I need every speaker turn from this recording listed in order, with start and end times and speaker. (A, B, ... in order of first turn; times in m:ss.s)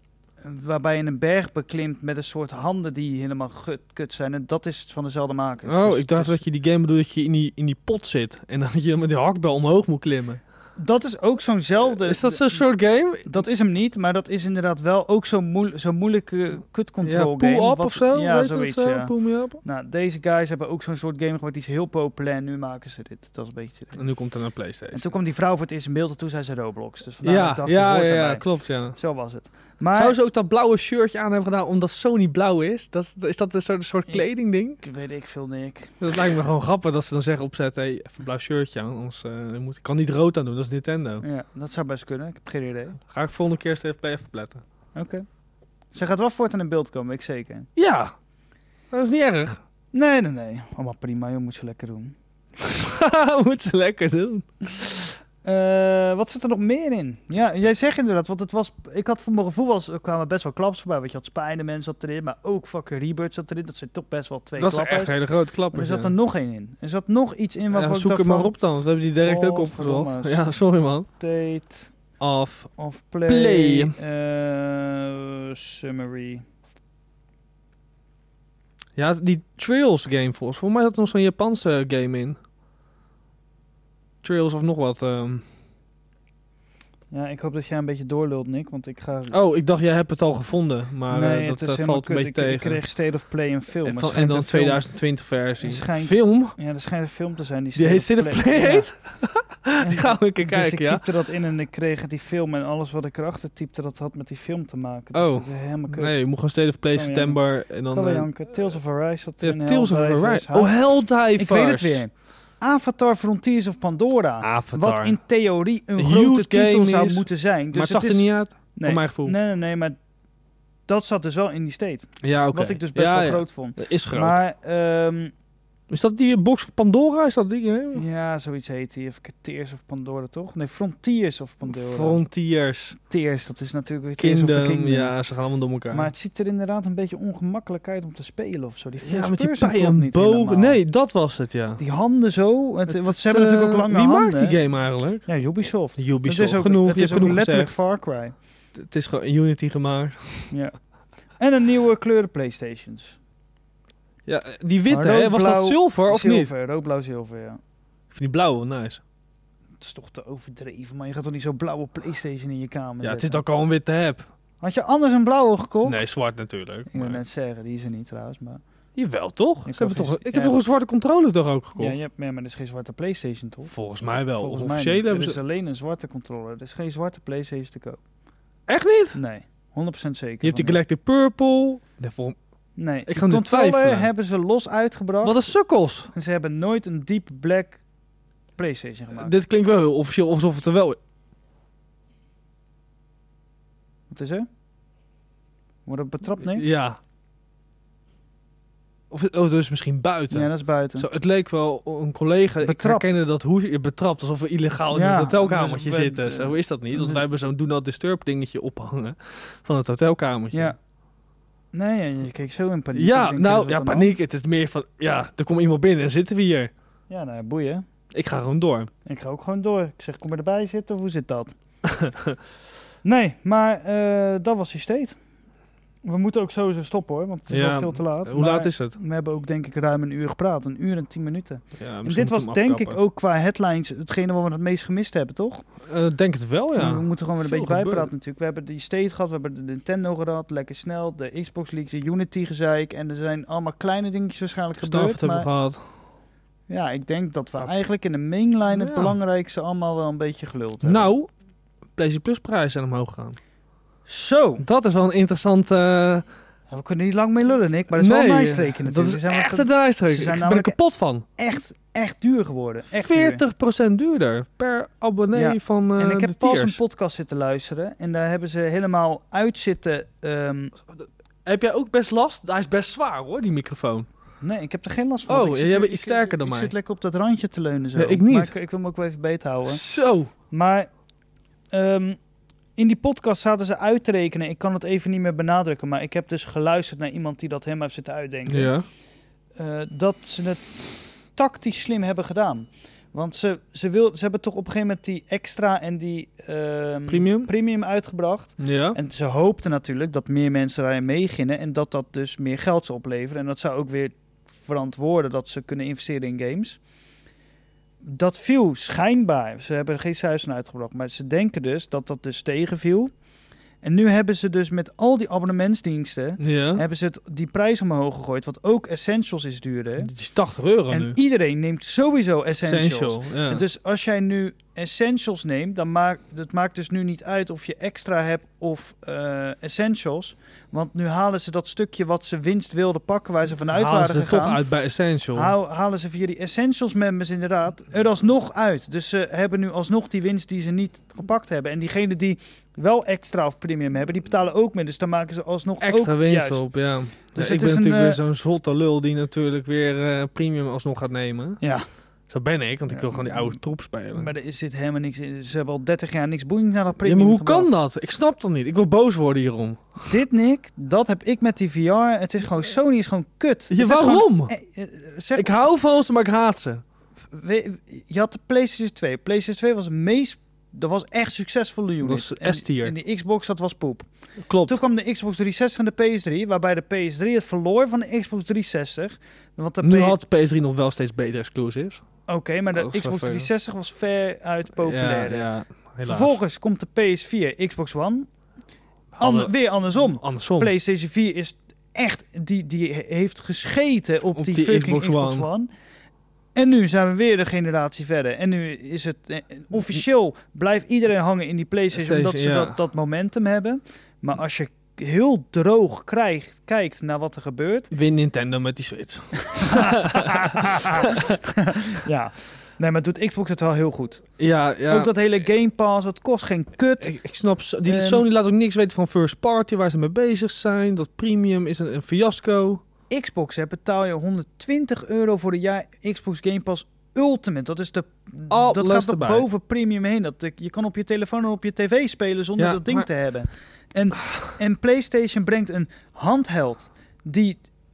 0:00.4-0:06.4 A
0:05.6-0:10.4 B
0:10.8-0:12.6 A
0:11.8-0:13.3 B
0:13.2-0:24.0 A
0:17.0-0:19.6 B
0:23.9-0:25.1 B
0:24.9-0:30.2 A
0:27.2-0:29.0 B
0:29.9-0:34.8 B
0:34.8-0:35.9 A
0:36.0-0:41.2 B
0:41.2-0:43.0 A
0:43.0-0:44.6 B
0:44.9-0:45.2 A
0:45.9-0:47.7 A
0:47.8-0:48.1 B
0:48.9-0:49.6 B
0:49.9-0:52.1 A
0:52.6-0:55.1 B
0:55.4-1:05.2 A
1:04.6-1:06.1 B
1:05.7-1:08.5 A
1:07.7-1:11.1 B
1:09.2-1:10.4 A
1:11.2-1:11.9 A
1:12.2-1:12.7 B
1:12.8-1:16.4 A
1:13.3-1:14.0 B
1:19.0-1:22.4 B
1:24.2-1:25.4 B
1:27.1-1:29.3 A
1:29.3-1:32.8 B
1:31.1-1:34.8 A
1:33.8-1:36.6 B
1:35.6-1:38.9 A
1:37.8-1:41.0 B
1:39.8-1:46.2 A
1:45.1-1:48.3 B
1:46.9-2:00.0 A
1:49.4-1:52.0 B
1:54.4-1:55.2 B
1:56.0-1:59.4 B
2:00.9-2:05.3 A
2:02.2-2:04.4 B
2:05.9-2:08.0 B
2:07.9-2:12.2 A
2:11.6-2:13.0 B
2:13.0-2:15.1 A
2:14.2-2:16.1 B
2:15.9-2:20.8 A
2:19.0-2:21.8 B
2:21.8-2:24.6 A
2:22.9-2:25.3 B
2:25.2-2:28.3 A
2:26.0-2:27.7 B
2:28.7-2:30.5 B
2:30.5-2:30.7 A
2:31.4-2:33.2 A
2:34.2-2:36.5 B
2:34.9-2:37.6 A
2:38.1-2:39.0 B
2:39.8-2:43.4 A
2:43.0-2:44.3 B
2:44.6-2:46.0 A
2:45.8-2:47.2 B
2:46.9-2:48.6 A
2:49.0-2:52.0 B
2:49.6-2:50.6 A
2:51.8-2:53.7 A
2:53.6-2:55.4 B
2:54.3-2:58.0 A
2:58.7-2:59.2 B
2:59.1-3:00.8 A
3:00.4-3:02.4 B
3:02.8-3:05.4 A
3:03.1-3:04.1 B
3:05.2-3:06.1 B
3:06.1-3:07.8 A
3:08.6-3:09.3 A
3:09.1-3:11.0 B
3:14.1-3:14.5 A
3:15.8-3:16.6 A
3:16.4-3:17.0 B
3:19.1-3:30.7 B
3:20.3-3:21.0 A
3:22.6-3:23.1 A
3:24.9-3:27.2 A
3:31.7-3:34.1 A
3:32.9-3:36.7 B
3:37.1-3:37.8 A
3:38.1-3:38.9 B
3:39.0-3:41.5 A
3:41.8-3:42.4 B
3:43.0-3:45.2 A
3:46.0-3:55.6 A
3:47.5-3:49.0 B
3:51.8-3:53.0 B
3:55.8-3:58.1 B
3:56.8-4:05.5 A
4:04.8-4:05.9 B
4:06.7-4:11.1 A
4:08.7-4:09.1 B
4:10.8-4:11.3 B
4:12.0-4:13.4 B
4:14.1-4:14.6 A
4:14.6-4:16.2 B
4:16.7-4:20.8 A
4:17.9-4:21.2 B
4:21.4-4:23.4 A
4:22.9-4:26.8 B
4:25.3-4:30.8 A
4:31.4-4:34.1 B
4:34.4-4:39.8 A
4:35.3-4:36.7 B
4:38.0-4:38.5 B
4:39.7-4:40.3 B
4:40.5-4:40.9 A
4:41.7-4:42.2 A
4:42.8-4:48.7 A
4:48.5-4:48.8 B
4:49.6-5:06.8 A
4:57.1-4:57.5 B
4:58.6-4:59.0 B
5:08.0-5:13.1 A
5:13.8-5:20.1 A
5:16.4-5:16.8 B
5:20.0-5:21.2 B
5:20.9-5:34.6 A
5:22.6-5:23.6 B
5:33.7-5:35.5 B
5:35.3-5:46.6 A
5:45.8-5:51.6 B
5:47.3-5:48.2 A
5:52.3-5:54.3 B
5:52.9-5:53.6 A
5:54.1-5:57.7 A
5:57.0-6:00.1 B
6:00.1-6:05.6 A
6:03.7-6:04.5 B
6:05.3-6:06.8 B
6:07.3-6:14.1 A
6:12.0-6:12.9 B
6:14.4-6:14.7 B
6:14.6-6:20.2 A
6:19.8-6:22.0 B
6:22.3-6:25.5 A
6:22.7-6:23.5 B
6:24.8-6:26.4 B
6:26.0-6:28.3 A
6:29.1-6:30.7 B
6:29.2-6:35.7 A
6:34.3-6:35.5 B
6:36.5-6:47.9 A
6:41.9-6:42.8 B
6:47.9-6:51.4 B
6:49.4-6:54.2 A
6:54.4-6:55.1 B
6:54.9-6:57.1 A
6:57.0-7:02.8 B
6:57.8-6:58.2 A
7:03.1-7:17.6 A
7:08.5-7:09.5 B
7:12.6-7:13.1 B
7:14.2-7:14.5 B